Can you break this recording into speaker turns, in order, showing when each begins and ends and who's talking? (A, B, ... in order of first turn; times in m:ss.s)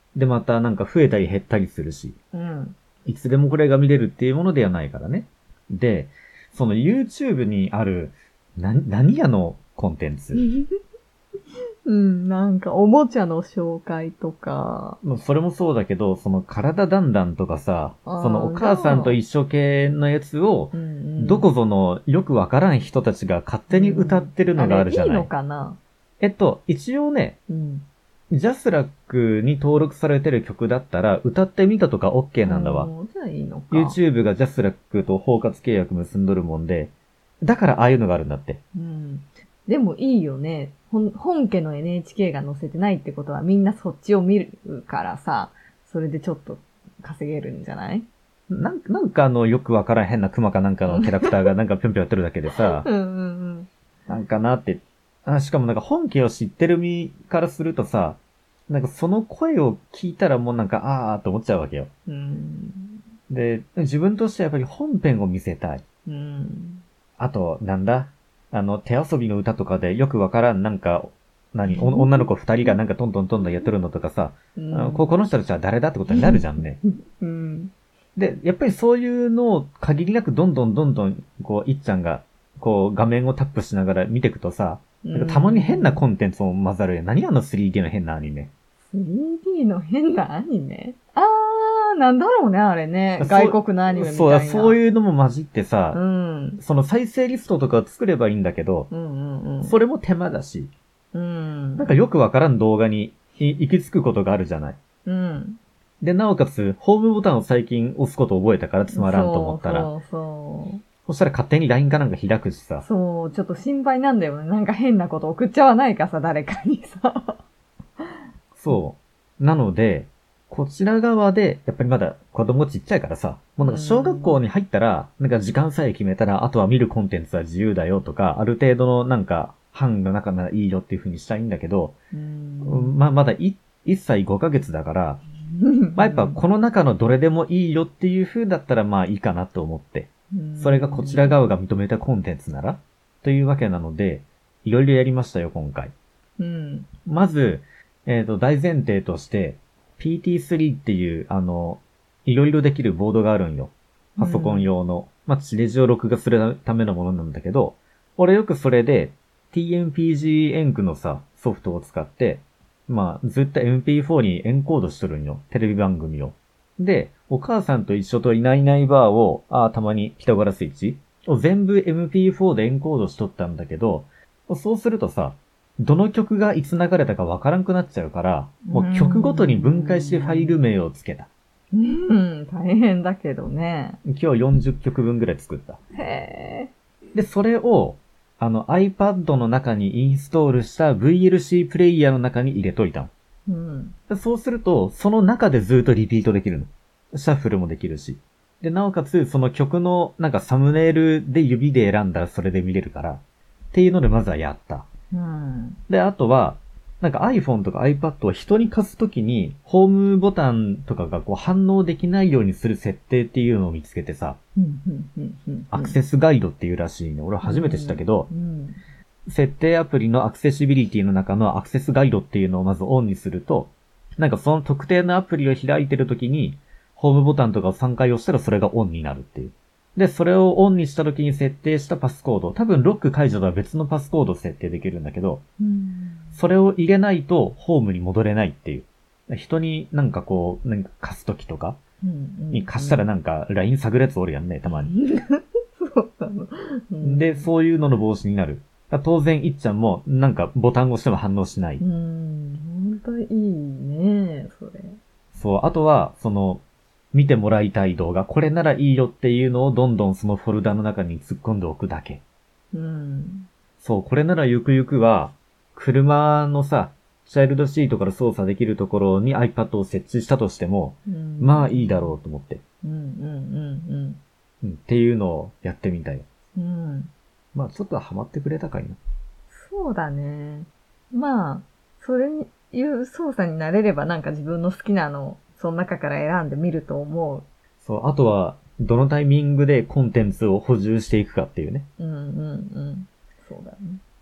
0:00.1-0:02.2 A
0:02.3-0:02.8 B
0:03.0-0:10.4 A
0:10.3-0:10.7 B
0:11.8-0:15.0 B
0:15.0-0:25.3 A
0:18.0-0:19.2 B
0:20.7-0:21.5 B
0:23.7-0:25.8 B
0:26.2-0:27.4 A
0:27.5-0:27.8 B
0:28.3-0:32.9 A
0:32.4-0:34.0 B
0:33.7-0:38.6 A
0:38.7-0:48.1 B
0:48.5-0:52.9 A
0:50.9-0:51.5 B
0:52.6-0:53.7 B
0:54.1-1:01.9 A
1:02.1-1:03.0 B
1:03.3-1:05.8 A
1:06.0-1:06.8 B
1:07.2-1:16.8 A
1:11.7-1:12.7 B
1:14.6-1:15.1 B
1:16.1-1:17.7 B
1:18.2-1:28.5 A
1:25.0-1:26.0 B
1:28.9-1:34.8 B
1:33.2-1:36.0 A
1:35.9-1:36.6 B
1:36.6-1:38.9 A
1:38.9-1:39.8 B
1:39.6-1:40.7 A
1:41.1-1:41.9 B
1:41.8-1:44.8 A
1:45.0-1:45.6 B
1:46.0-1:49.9 A
1:48.9-1:50.8 B
1:51.0-1:52.8 A
1:52.8-1:57.4 B
1:58.5-2:12.0 A
2:03.6-2:04.4 B
2:12.1-2:12.9 B
2:12.6-2:15.2 A
2:15.5-2:16.4 B
2:16.0-2:25.9 A
2:20.3-2:21.4 B
2:26.4-2:26.9 B
2:27.0-3:01.3 A
2:34.2-2:34.7 B
2:58.6-3:00.6 B
3:01.7-3:04.0 B
3:04.0-3:05.8 A
3:06.0-3:06.7 B
3:07.1-3:13.1 A
3:13.5-3:13.9 B
3:14.1-3:23.2 A
3:23.7-3:24.9 A
3:25.1-3:25.8 B
3:25.9-3:34.4 A
3:34.6-3:36.0 B
3:35.7-3:38.3 A
3:37.4-3:38.8 B
3:39.3-3:55.4 A
3:55.6-3:56.4 B
3:56.4-4:01.8 A
4:02.0-4:03.1 B
4:02.5-4:04.9 A
4:04.6-4:07.5 B
4:07.0-4:11.8 A
4:11.8-4:15.0 B
4:15.3-4:22.2 A
4:22.7-4:23.5 B
4:23.8-4:32.6 A
4:31.1-4:32.2 B
4:32.8-4:34.2 B
4:34.6-4:36.2 A
4:36.6-4:37.1 B
4:37.5-4:39.0 A
4:39.5-4:47.4 B
4:47.8-4:51.9 A
4:52.0-4:54.0 B